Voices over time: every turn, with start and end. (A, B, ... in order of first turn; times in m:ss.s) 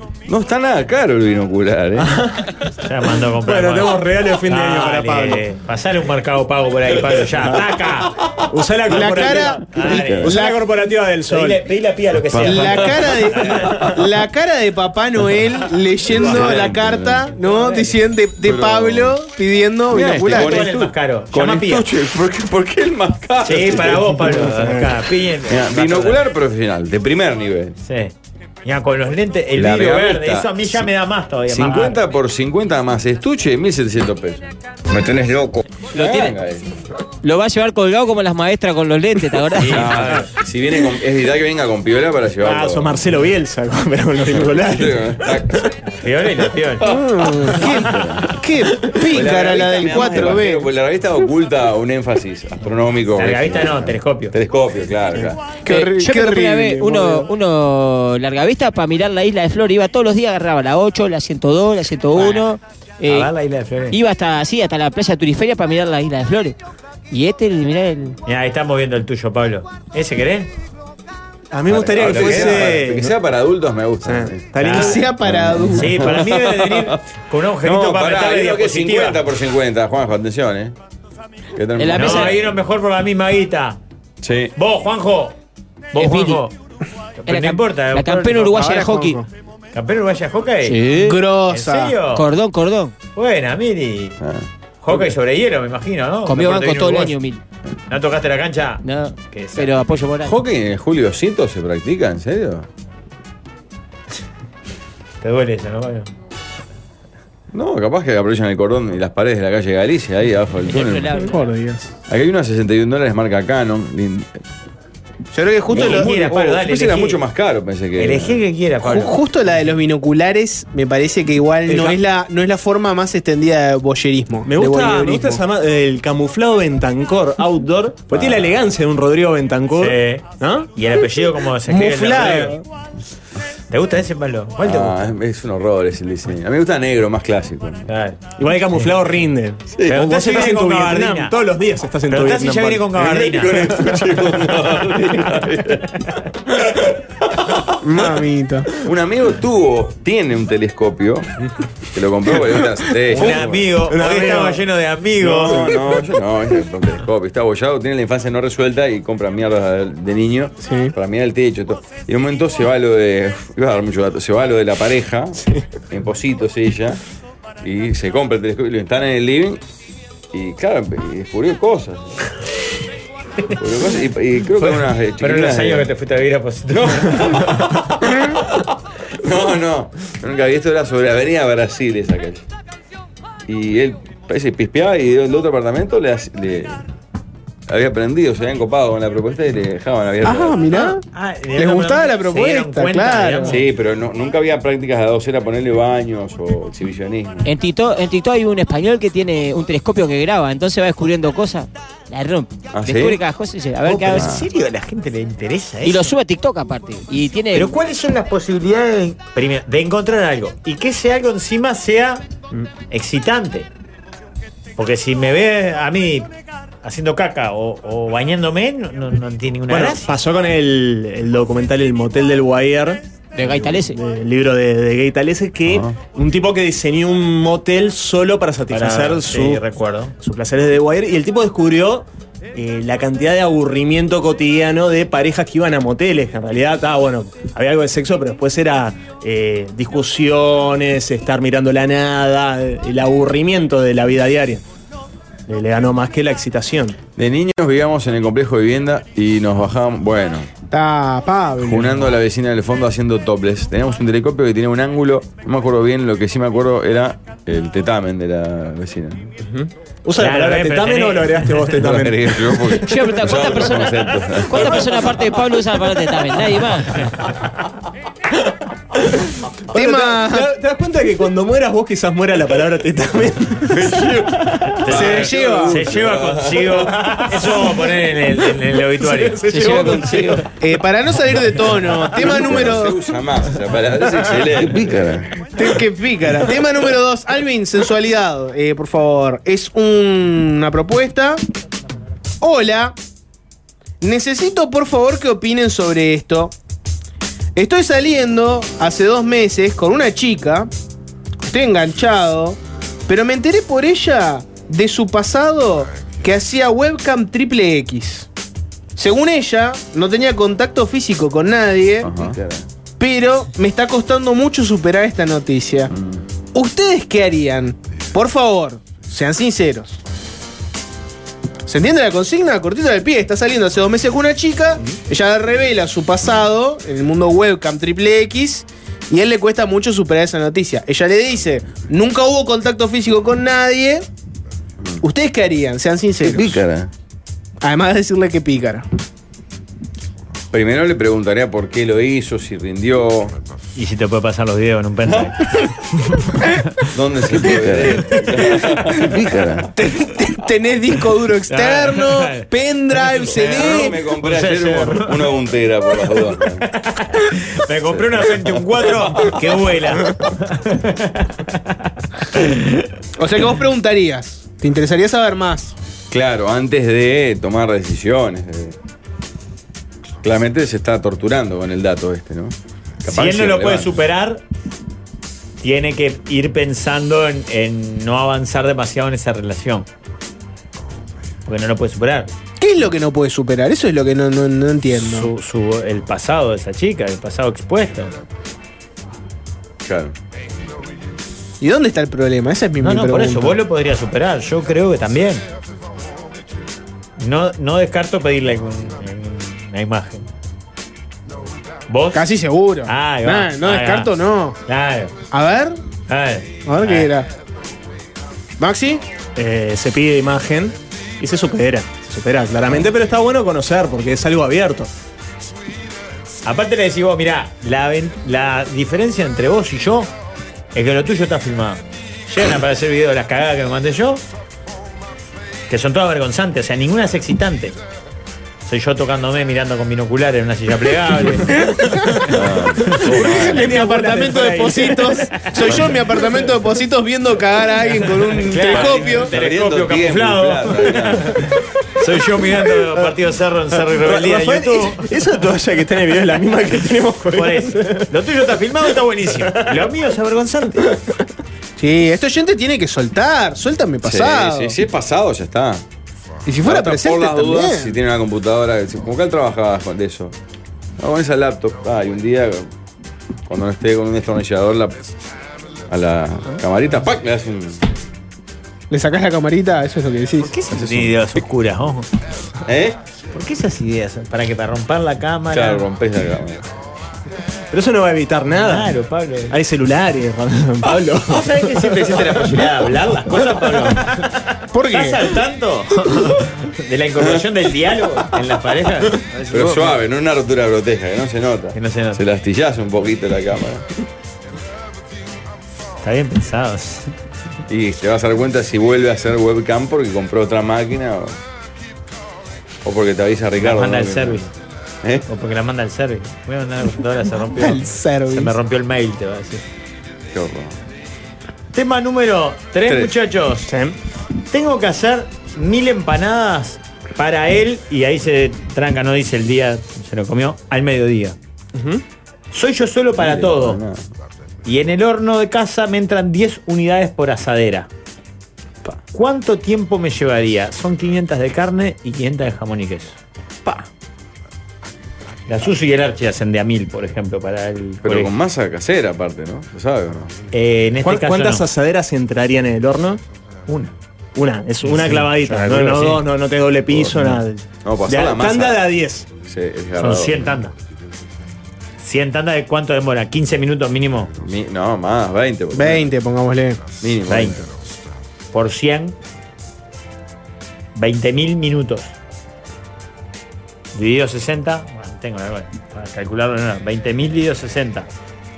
0:00.3-0:02.2 A
0:02.0-0:02.5 B
0:02.8-0:08.2 C
0:03.4-0:05.4 B
0:08.5-0:11.6 B
0:08.9-0:10.6 D
0:09.7-0:10.4 C
0:09.8-0:10.4 A
0:11.3-0:13.8 C
0:12.3-0:13.9 A
0:12.4-0:20.6 D
0:16.1-0:17.3 A
0:17.4-0:17.9 C
0:18.4-0:19.2 A
0:19.9-0:24.3 A
0:20.3-0:21.9 C
0:23.4-0:26.2 C
0:24.3-0:25.0 B
0:25.5-0:27.8 A
0:27.8-0:32.0 C
0:29.6-0:30.9 A
0:31.5-0:36.7 A
0:35.9-0:36.4 E
0:37.2-0:39.9 E
0:39.6-0:40.3 C
0:39.7-0:43.0 A
0:42.4-0:45.3 B
0:44.2-0:45.7 A
0:45.9-0:46.9 C
0:46.8-0:48.4 A
0:46.8-0:50.7 D
0:48.9-0:55.4 A
0:53.1-0:54.3 C
0:55.6-0:57.3 D
0:55.7-1:03.3 E
1:02.2-1:02.4 C
1:03.1-1:04.0 C
1:03.9-1:06.6 E
1:07.1-1:08.2 E
1:08.3-1:10.5 C
1:11.5-1:13.1 B
1:11.7-1:14.5 A
1:12.0-1:12.7 C
1:14.0-1:15.1 B
1:14.6-1:15.0 C
1:14.7-1:16.0 D
1:15.2-1:17.0 A
1:15.7-1:19.2 C
1:17.6-1:20.8 A
1:21.6-1:22.5 A
1:21.8-1:22.4 E
1:21.9-1:23.8 C
1:24.2-1:24.5 A
1:24.6-1:25.4 C
1:25.9-1:26.6 C
1:26.0-1:26.4 E
1:27.2-1:28.8 C
1:27.3-1:29.2 E
1:28.5-1:29.3 D
1:29.7-1:30.8 C
1:30.7-1:31.2 E
1:30.9-1:32.0 D
1:31.5-1:32.3 C
1:32.1-1:33.0 E
1:33.2-1:34.2 C
1:34.2-1:35.1 A
1:34.8-1:37.2 C
1:36.3-1:37.4 E
1:37.9-1:39.7 C
1:38.8-1:40.4 E
1:40.2-1:42.7 A
1:45.2-1:46.1 C
1:47.5-1:51.3 A
1:50.7-1:51.5 E
1:51.2-1:51.9 D
1:52.1-1:54.4 A
1:55.3-1:56.1 D
1:55.7-1:58.4 A
1:55.7-1:57.2 C
1:58.0-1:59.2 C
1:58.8-2:05.4 D
2:01.7-2:02.0 B
2:04.5-2:10.7 B
2:08.1-2:08.6 A
2:09.8-2:12.6 C
2:11.7-2:12.6 D
2:13.7-2:15.1 C
2:14.6-2:17.9 A
2:17.9-2:18.2 C
2:18.4-2:23.9 B
2:19.7-2:20.0 A
2:19.9-2:21.4 C
2:22.1-2:23.8 C
2:23.0-2:27.7 A
2:27.8-2:28.7 D
2:28.8-2:31.3 A
2:31.9-2:33.7 A
2:33.1-2:35.7 C
2:33.1-2:34.6 B
2:35.2-2:47.0 A
2:35.4-2:35.8 B
2:40.7-2:40.9 D
2:47.6-2:49.6 A
2:50.3-2:52.2 A
2:53.5-2:55.9 A
2:54.6-2:57.6 C
2:56.7-3:02.4 A
3:03.5-3:06.8 A
3:07.7-3:10.6 A
3:10.2-3:11.0 D
3:10.7-3:13.6 C
3:11.6-3:13.6 D
3:13.5-3:17.5 A
3:17.4-3:24.3 E
3:22.7-3:23.2 A
3:23.8-3:26.2 C
3:24.1-3:24.4 A
3:25.8-3:27.7 E
3:27.5-3:32.2 C
3:32.9-3:33.7 C
3:34.8-3:36.3 C
3:36.8-3:40.1 C
3:39.7-3:49.6 B
3:43.4-3:44.0 E
3:45.7-3:46.0 A
3:48.7-3:50.1 C
3:50.2-4:04.6 B
4:05.5-4:07.0 B
4:07.2-4:10.5 A
4:10.7-4:12.1 D
4:11.6-4:19.3 A
4:19.4-4:22.9 B
4:20.2-4:21.8 C
4:21.7-4:25.2 A
4:22.8-4:27.0 E
4:29.0-4:33.9 B
4:29.7-4:30.5 D
4:33.7-4:36.8 A
4:34.8-4:39.4 C
4:34.9-4:35.8 D
4:37.1-4:37.7 B
4:39.0-4:40.4 B
4:39.5-4:40.4 E
4:40.6-4:43.0 D
4:42.2-4:45.5 A
4:45.6-4:51.4 D
4:52.4-4:53.0 D
4:54.0-4:56.5 D
4:57.6-5:00.7 D
5:01.4-5:08.3 D
5:09.0-5:12.3 D
5:12.0-5:12.7 A
5:13.0-5:15.9 D
5:15.9-5:16.2 A
5:16.5-5:20.0 D
5:21.7-5:34.1 D
5:35.0-5:36.6 D
5:36.2-5:36.9 A
5:37.6-5:38.9 D
5:40.5-5:43.4 A
5:43.8-5:45.7 C
5:45.0-5:45.4 A
5:46.3-5:46.9 C
5:46.9-5:49.7 A
5:47.4-5:48.2 C
5:48.6-5:49.1 D
5:49.8-5:54.0 D
5:51.5-5:52.5 C
5:53.0-5:55.3 C
5:53.2-5:56.7 A
5:56.7-6:02.9 C
5:57.8-5:59.4 A
6:03.2-6:05.8 D
6:06.1-6:08.8 A
6:10.2-6:14.0 A
6:13.1-6:14.4 C
6:15.6-6:19.9 C
6:21.5-6:22.3 C
6:22.6-6:25.3 D
6:24.9-6:28.2 C
6:29.8-6:30.2 A
6:31.6-6:33.6 D
6:32.8-6:35.4 C
6:37.2-6:40.2 C
6:41.9-6:42.3 C
6:42.1-6:44.6 D
6:42.9-6:44.1 C
6:44.7-6:45.1 C
6:45.3-6:45.8 D
6:46.1-6:47.1 C
6:46.7-6:47.3 D
6:48.6-6:49.0 D
6:49.4-6:54.9 B
6:56.4-7:00.1 C
7:00.7-7:04.2 C
7:05.7-7:07.8 C
7:08.7-7:11.6 C
7:11.6-7:12.3 B
7:12.2-7:13.7 A
7:13.0-7:15.2 B
7:13.2-7:19.3 D
7:18.3-7:25.1 C
7:18.7-7:21.5 A
7:24.0-7:28.1 B
7:27.3-7:31.0 C
7:29.4-7:29.8 B
7:31.8-7:34.8 D
7:34.0-7:35.8 A
7:36.4-7:37.9 D
7:36.6-7:40.3 A
7:41.0-7:42.7 A
7:43.5-7:45.1 A
7:45.9-7:47.8 A
7:48.9-7:50.5 D
7:50.4-7:52.1 C
7:50.7-7:51.4 A
7:52.6-7:53.0 A
7:53.3-7:55.9 C
7:55.5-7:56.6 A
7:57.7-7:58.9 B
7:58.5-7:59.6 C
7:59.5-8:02.5 B
8:00.9-8:09.8 C
8:04.7-8:05.4 D
8:07.2-8:07.5 A
8:09.5-8:13.9 A
8:11.8-8:12.2 C
8:16.0-8:17.1 C
8:17.7-8:21.4 A
8:22.8-8:24.5 A
8:23.6-8:24.5 C
8:25.3-8:29.6 C
8:27.5-8:28.5 D
8:30.3-8:30.8 A
8:31.7-8:33.7 C
8:32.9-8:33.1 A
8:33.7-8:34.0 B
8:34.5-8:41.4 C
8:41.8-8:42.0 B
8:42.5-8:43.8 C
8:43.2-8:44.1 A
8:44.6-8:47.9 C
8:49.1-8:53.2 C
8:55.5-8:58.3 C
8:58.0-9:00.3 A
9:00.5-9:01.6 C
9:01.0-9:03.2 B
9:03.7-9:03.9 C
9:04.4-9:09.3 B
9:04.8-9:06.2 C
9:06.9-9:07.2 A
9:07.8-9:08.8 A
9:09.4-9:10.5 A
9:10.0-9:10.7 C
9:12.0-9:14.3 C
9:14.4-9:16.1 A
9:15.7-9:16.9 D
9:17.0-9:17.7 A
9:17.3-9:17.6 C
9:18.5-9:19.2 C
9:21.0-9:22.1 C
9:24.0-9:28.1 C